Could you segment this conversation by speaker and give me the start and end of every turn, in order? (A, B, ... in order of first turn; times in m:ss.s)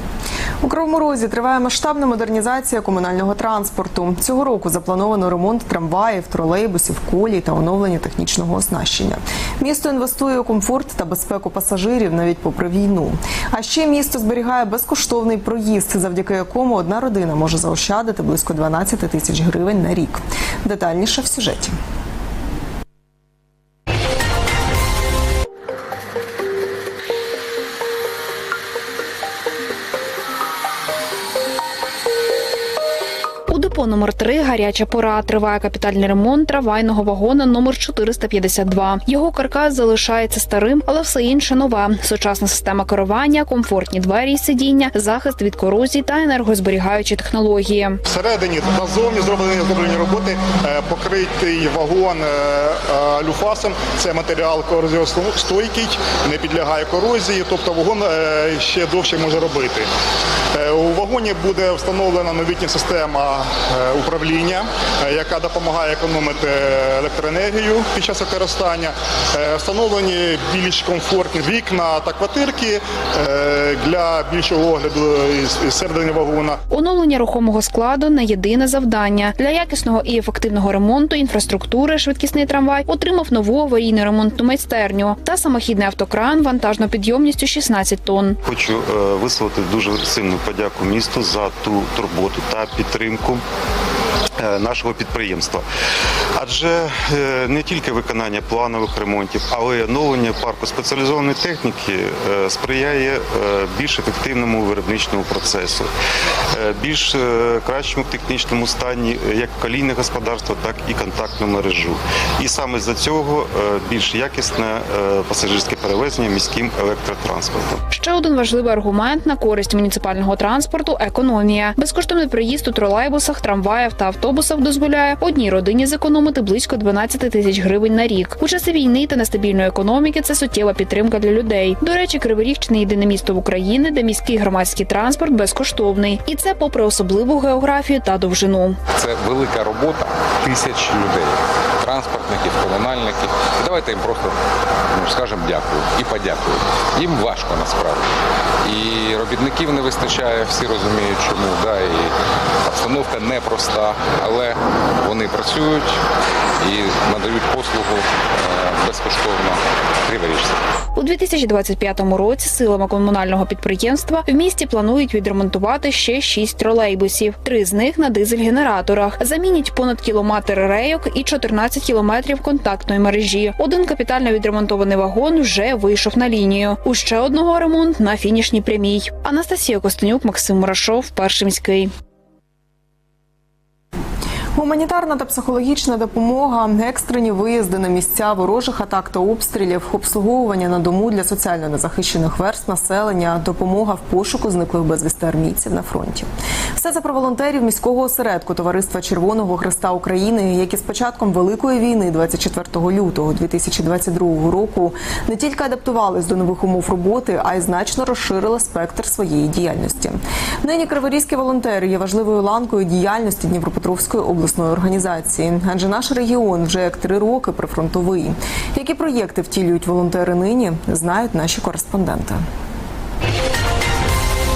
0:00.6-0:21.8 A
0:33.5-0:48.0 B
0:48.1-0:59.9 C
1:00.5-1:16.6 C
1:16.7-1:28.4 B
1:28.4-1:33.4 D
1:34.4-1:35.6 D
1:36.4-1:45.9 D
1:46.6-1:57.8 D
1:57.9-2:18.8 B
2:19.0-2:24.4 E
2:24.9-2:28.1 E
2:28.6-2:32.1 E
2:32.7-2:36.0 E
2:36.6-2:40.6 E
2:41.0-3:01.9 B
3:04.6-3:42.4 A